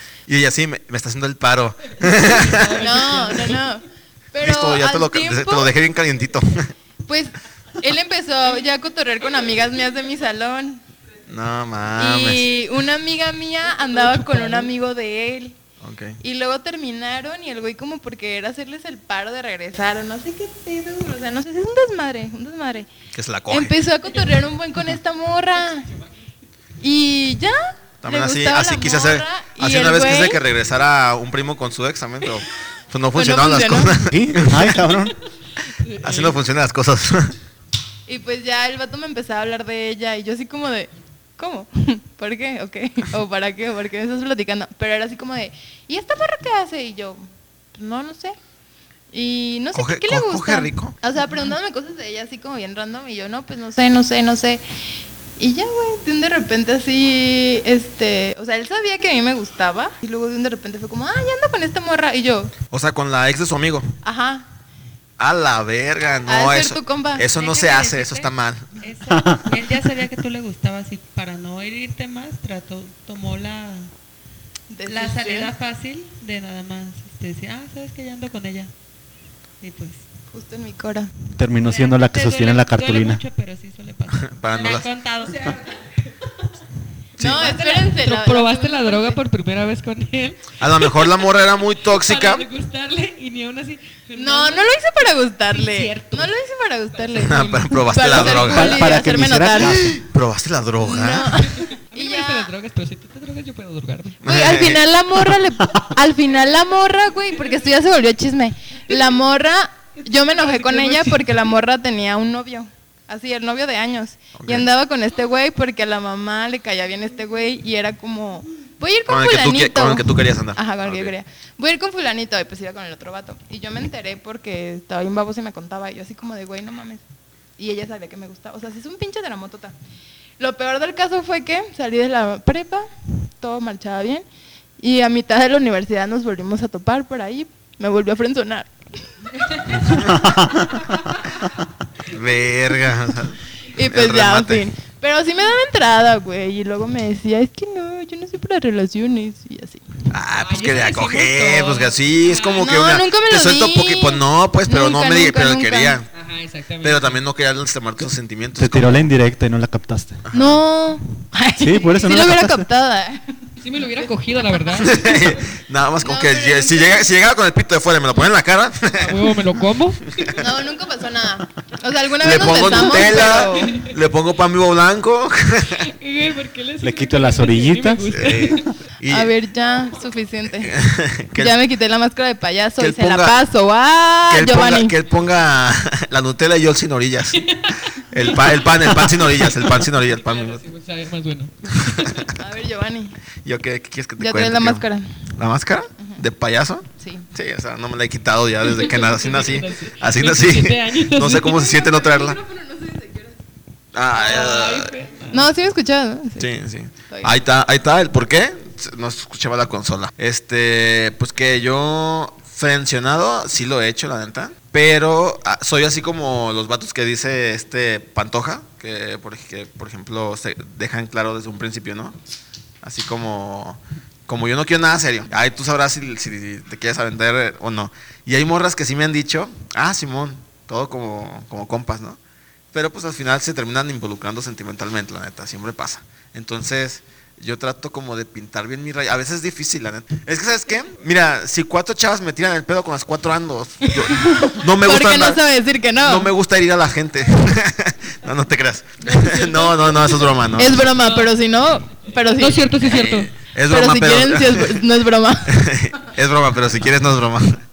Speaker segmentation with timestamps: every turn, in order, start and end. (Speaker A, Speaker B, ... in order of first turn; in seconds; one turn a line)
Speaker A: 0.3-2.9
Speaker B: 2.0-3.6
Speaker C: 2.7-5.7
Speaker A: 4.4-6.7
Speaker C: 7.1-10.8
Speaker A: 11.3-12.5
Speaker C: 12.0-15.6
Speaker B: 13.9-14.7
Speaker A: 15.8-16.2
Speaker C: 16.2-22.9
Speaker A: 23.1-23.7
Speaker C: 23.5-25.9
Speaker C: 26.8-30.4
Speaker A: 28.0-34.8
Speaker C: 33.1-34.0
Speaker D: 34.1-35.1
Speaker B: 35.8-36.4
Speaker A: 36.0-37.3
Speaker C: 38.1-48.4
Speaker C: 49.1-54.6
Speaker A: 49.8-51.0
Speaker C: 55.4-62.5
Speaker A: 62.7-63.9
Speaker C: 64.0-64.5
Speaker A: 65.2-68.8
Speaker C: 66.3-67.3
Speaker E: 67.3-73.9
Speaker D: 69.1-69.5
Speaker C: 74.7-75.5
Speaker E: 74.9-78.7
Speaker E: 79.6-80.0
Speaker C: 80.3-81.1
Speaker D: 81.4-83.2
Speaker E: 81.6-85.6
Speaker A: 84.2-84.9
Speaker A: 87.2-87.5
Speaker C: 87.2-89.2
Speaker B: 87.4-90.4
Speaker A: 90.6-92.5
Speaker B: 91.9-94.7
Speaker C: 94.2-99.9
Speaker B: 95.5-96.3
Speaker A: 97.2-98.8
Speaker B: 97.3-98.3
Speaker D: 98.2-100.0
Speaker A: 99.6-101.4
Speaker C: 100.8-102.5
Speaker B: 101.7-104.2
Speaker A: 104.2-104.8
Speaker C: 104.2-127.0
Speaker B: 110.3-111.2
Speaker A: 114.4-114.7
Speaker A: 119.1-121.1
Speaker C: 127.6-129.7
Speaker C: 130.4-134.2
Speaker C: 134.8-139.8
Speaker A: 139.7-140.3
Speaker D: 140.1-140.8
Speaker A: 142.1-144.6
Speaker C: 143.7-149.8
Speaker A: 150.1-156.1
Speaker B: 150.4-152.7
Speaker C: 152.6-156.0
Speaker B: 156.1-157.2
Speaker A: 156.8-159.1
Speaker D: 158.6-160.2
Speaker A: 160.3-160.6
Speaker C: 160.3-163.2
Speaker D: 161.6-162.7
Speaker B: 163.6-165.2
Speaker A: 164.8-169.3
Speaker C: 166.0-167.1
Speaker B: 168.9-170.3
Speaker C: 170.3-173.8
Speaker A: 172.2-175.9
Speaker B: 172.7-173.9
Speaker B: 175.8-178.7
Speaker D: 176.8-178.2
Speaker A: 178.1-179.3
Speaker C: 179.1-180.7
Speaker A: 180.6-181.6
Speaker C: 181.4-185.0
Speaker A: 182.8-183.4
Speaker A: 184.3-187.5
Speaker B: 187.4-192.2
Speaker A: 188.1-190.6
Speaker A: 191.7-192.3
Speaker C: 192.4-193.2
Speaker A: 193.4-194.8
Speaker C: 194.2-195.1
Speaker A: 195.4-202.4
Speaker C: 197.0-197.3
Speaker B: 198.6-201.7
Speaker C: 201.5-203.4
Speaker A: 203.9-204.9
Speaker B: 204.1-205.5
Speaker C: 205.3-206.5
Speaker A: 206.4-222.2
Speaker C: 207.1-207.4
Speaker A: 222.8-232.2
Speaker A: 232.7-245.4
Speaker C: 243.9-246.3
Speaker A: 246.0-250.8
Speaker B: 249.0-251.3
Speaker C: 250.6-252.7
Speaker B: 252.4-253.3
Speaker A: 252.8-254.8
Speaker C: 253.7-255.6
Speaker A: 255.5-257.6